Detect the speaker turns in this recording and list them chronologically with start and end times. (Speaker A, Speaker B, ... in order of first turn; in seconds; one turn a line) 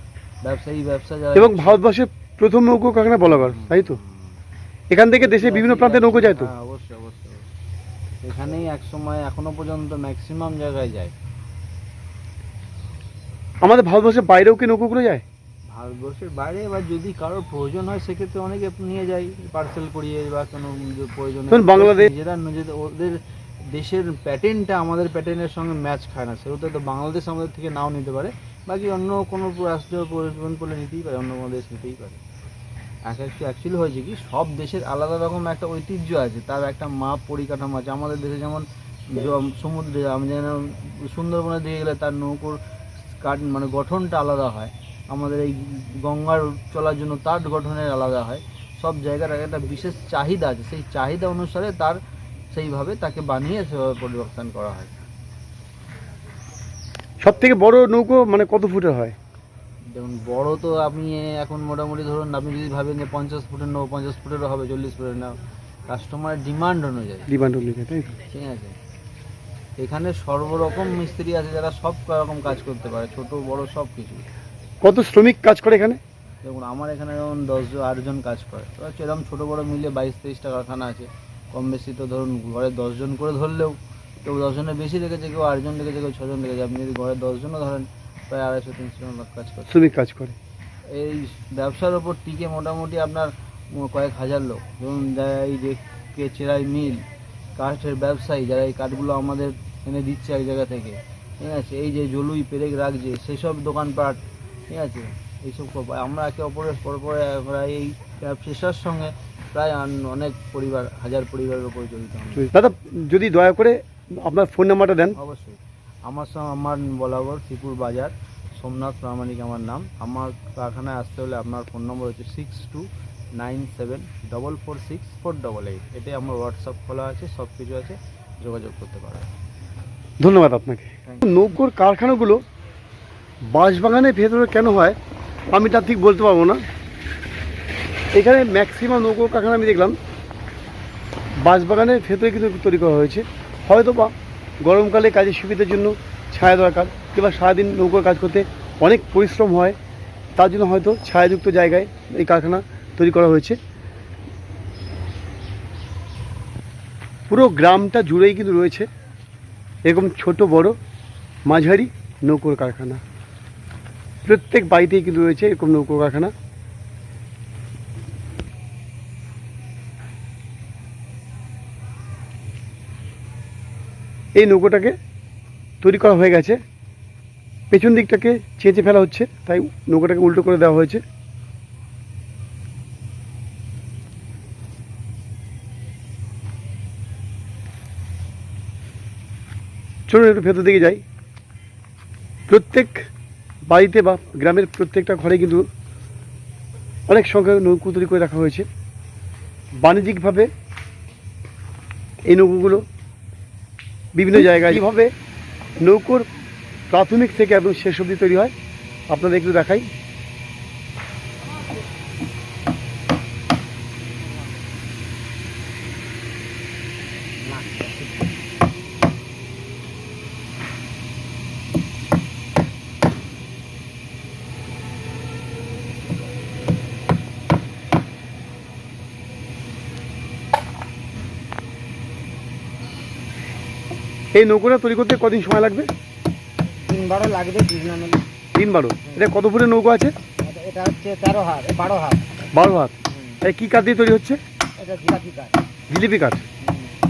Speaker A: 0.4-1.8
Speaker B: 1.3-4.0
Speaker A: 3.3-4.3
Speaker B: 4.9-6.5
Speaker A: 5.2-7.5
Speaker A: 8.2-11.1
Speaker B: 13.6-15.2
Speaker A: 15.7-32.2
Speaker B: 21.5-22.1
Speaker A: 33.0-42.6
Speaker A: 43.2-52.0
Speaker A: 52.5-54.9
Speaker B: 57.2-59.1
Speaker A: 59.9-65.3
Speaker A: 65.9-67.3
Speaker B: 67.3-68.1
Speaker A: 68.3-68.8
Speaker A: 69.8-74.2
Speaker B: 74.8-76.0
Speaker A: 76.4-89.8
Speaker B: 89.7-90.4
Speaker A: 90.9-97.0
Speaker A: 97.5-112.4
Speaker B: 112.3-115.2
Speaker A: 115.2-129.3
Speaker B: 130.2-132.4
Speaker B: 133.5-135.0
Speaker B: 135.5-136.6
Speaker B: 138.1-139.9
Speaker B: 141.4-149.8
Speaker B: 150.4-153.6
Speaker B: 157.3-158.9
Speaker B: 159.8-160.8
Speaker B: 161.4-163.0
Speaker B: 164.2-166.3
Speaker B: 174.3-174.9
Speaker B: 175.8-176.6
Speaker B: 177.7-181.0
Speaker B: 190.1-191.0
Speaker B: 192.5-193.0
Speaker B: 193.7-195.6
Speaker B: 197.1-198.7
Speaker B: 199.8-200.5
Speaker B: 202.3-202.8
Speaker B: 204.2-205.1
Speaker B: 205.8-206.2
Speaker B: 206.9-208.5
Speaker B: 209.1-209.9
Speaker C: 217.4-218.3
Speaker B: 234.3-235.9
Speaker C: 236.8-238.2
Speaker B: 238.5-240.1
Speaker C: 240.4-242.2
Speaker B: 242.5-244.4
Speaker C: 244.8-245.6
Speaker B: 245.9-246.4